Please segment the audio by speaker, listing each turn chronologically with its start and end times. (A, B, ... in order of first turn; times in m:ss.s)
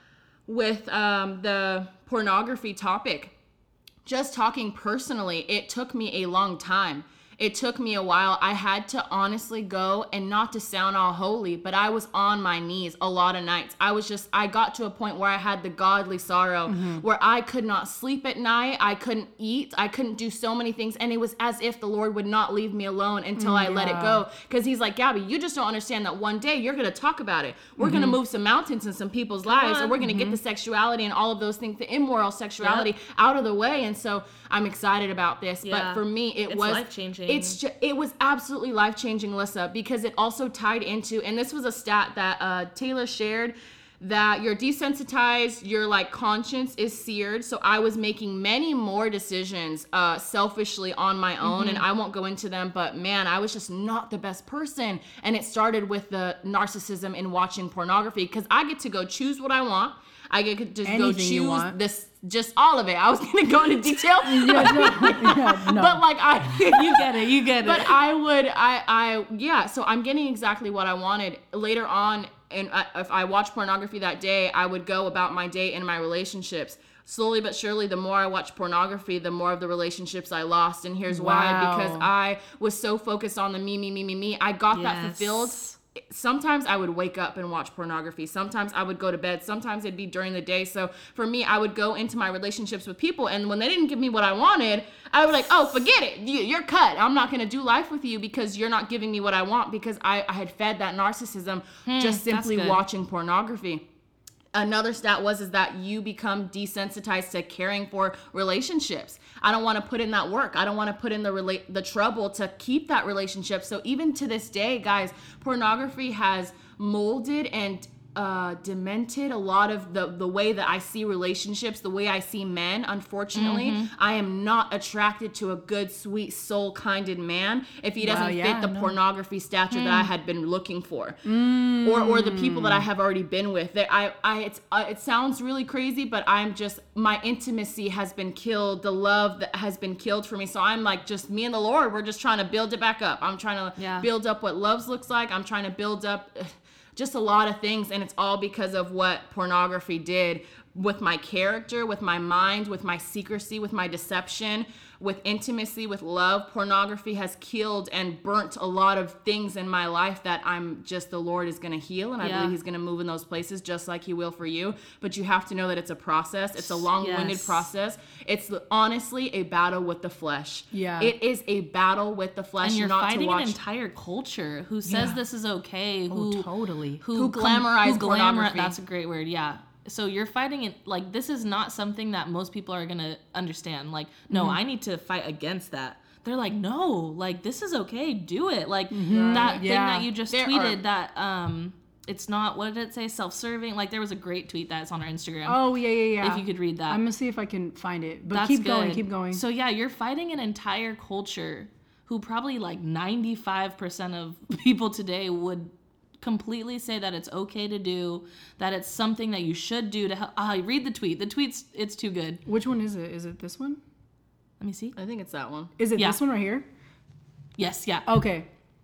0:00.5-0:03.3 A
0:04.0-1:43.8 A
0:16.7-0:17.0 B
0:23.4-0:24.2 B
0:27.8-0:28.2 B
0:29.4-0:30.4 C
0:32.6-0:32.9 C
0:35.6-0:37.6 C
0:51.4-0:51.8 C
1:00.8-1:01.8 B
1:04.2-1:06.0 B
1:04.6-1:05.1 C
1:06.5-1:08.0 C
1:21.1-1:22.1 B
1:24.7-1:25.8 C
1:41.9-1:42.8 C
1:44.5-2:11.2 A
2:03.4-2:03.9 C
2:08.0-2:09.0 B
2:09.7-2:10.1 C
2:11.2-2:12.9 B
2:11.8-2:53.6 A
2:23.8-2:24.1 C
2:42.2-2:42.6 C
2:46.6-2:47.7 C
2:50.7-2:51.2 B
2:52.6-2:56.5 C
2:54.9-2:55.2 B
2:56.1-2:57.0 B
2:57.0-3:15.6 C
2:57.1-2:58.8 A
3:04.3-3:04.6 B
3:08.9-3:10.1 B
3:09.1-3:09.6 A
3:10.3-3:10.8 A
3:15.5-3:19.4 B
3:16.2-3:17.0 C
3:18.3-3:32.4 C
3:32.5-3:33.8 B
3:34.6-3:35.0 C
3:35.0-3:35.7 A
3:35.8-3:36.7 B
3:37.6-3:38.1 C
3:38.1-3:38.5 B